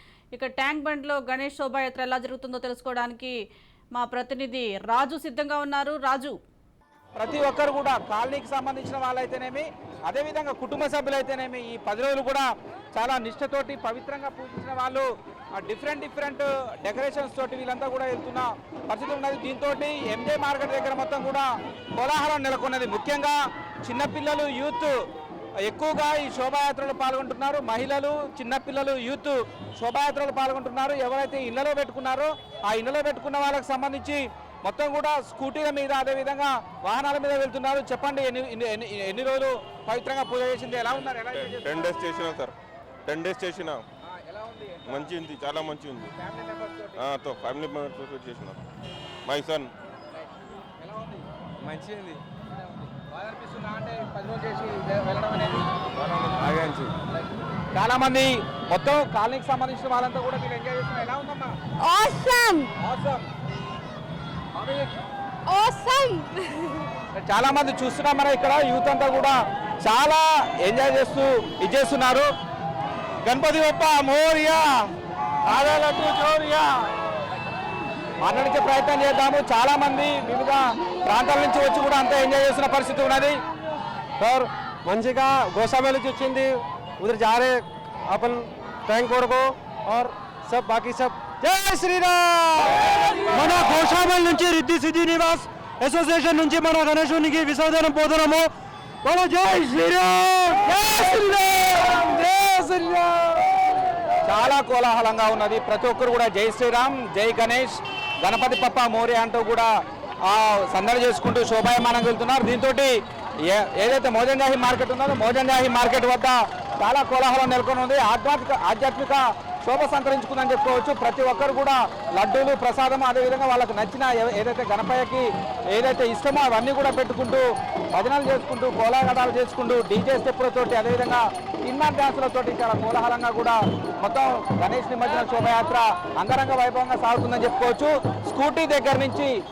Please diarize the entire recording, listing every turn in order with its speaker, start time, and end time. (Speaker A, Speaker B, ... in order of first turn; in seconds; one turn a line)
Speaker A: 0.3-3.3
Speaker A: 4.0-6.3
Speaker B: 7.2-15.1
Speaker B: 15.6-25.0
Speaker B: 25.6-42.0
Speaker C: 41.3-42.5
Speaker C: 43.1-43.8
Speaker B: 44.2-45.1
Speaker C: 44.8-46.1
Speaker B: 46.2-47.0
Speaker C: 47.0-48.6
Speaker C: 49.2-49.7
Speaker B: 50.8-51.2
Speaker B: 52.9-55.7
Speaker C: 56.0-56.9
Speaker B: 57.7-61.5
Speaker D: 61.8-62.7
Speaker B: 62.8-63.2
Speaker B: 64.5-64.9
Speaker D: 65.5-66.9
Speaker B: 67.2-72.3
Speaker C: 73.3-74.3
Speaker B: 73.6-74.6
Speaker B: 75.5-76.6
Speaker B: 78.2-83.4
Speaker E: 84.2-98.5
Speaker E: 99.0-103.5
Speaker B: 104.2-109.7
Speaker B: 110.2-139.3